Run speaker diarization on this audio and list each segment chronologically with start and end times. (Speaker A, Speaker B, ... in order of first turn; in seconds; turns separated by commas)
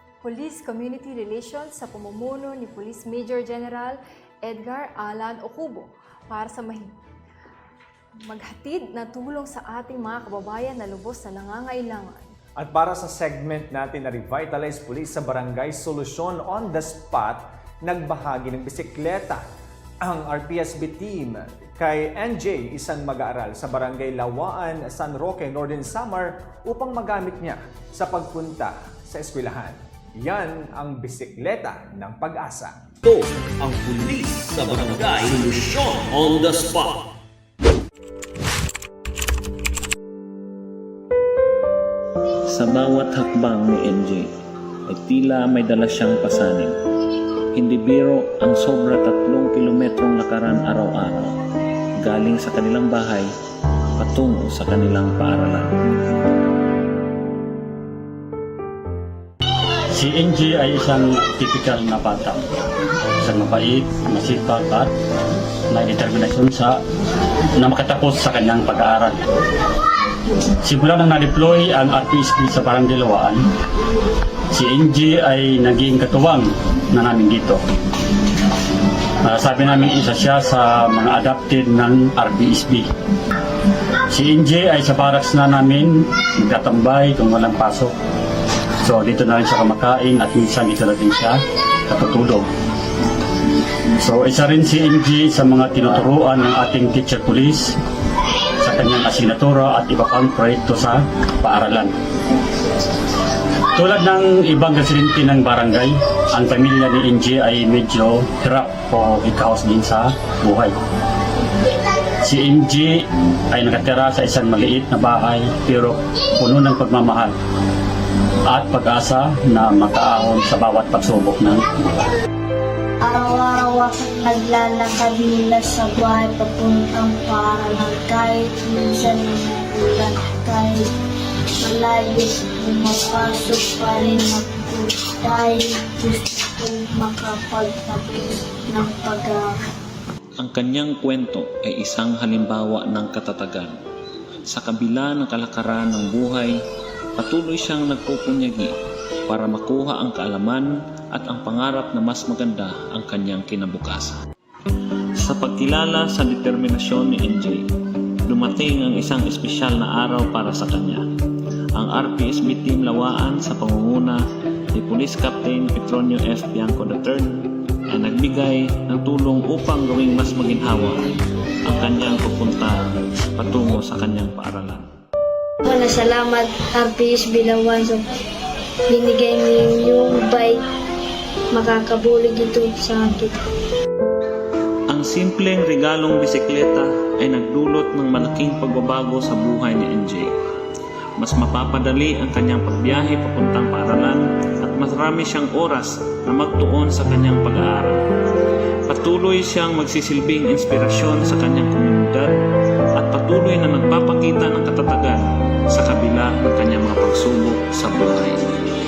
Speaker A: 0.2-6.9, Speaker A: 8.3-12.3, Speaker B: 12.6-19.4, Speaker B: 20.0-33.0, Speaker C: 33.0-36.8, Speaker B: 33.6-36.9, Speaker D: 42.5-44.3, Speaker D: 44.9-46.8, Speaker D: 47.5-51.3, Speaker D: 52.0-53.3, Speaker D: 54.0-55.8, Speaker E: 59.9-62.4, Speaker E: 63.2-64.9, Speaker E: 65.7-66.8, Speaker E: 67.6-69.2, Speaker E: 70.6-73.4, Speaker E: 74.5-77.6, Speaker E: 79.2-82.9, Speaker E: 84.1-87.9, Speaker E: 88.8-92.5, Speaker E: 93.9-97.8, Speaker E: 98.6-101.9, Speaker E: 103.7-110.8, Speaker E: 112.2-117.3, Speaker E: 118.5-121.6, Speaker F: 123.0-130.8, Speaker F: 131.6-139.6, Speaker D: 140.4-143.7, Speaker D: 144.5-146.6, Speaker D: 147.2-148.8, Speaker D: 149.3-154.2, Speaker D: 155.2-157.7, Speaker D: 158.2-161.0, Speaker D: 161.7-164.2, Speaker D: 164.7-171.1, Speaker D: 171.6-174.9, Speaker F: 175.7-178.1, Speaker F: 178.9-180.6, Speaker F: 181.5-183.4, Speaker D: 184.9-190.3, Speaker D: 191.2-198.0, Speaker D: 198.9-202.3, Speaker D: 203.0-208.6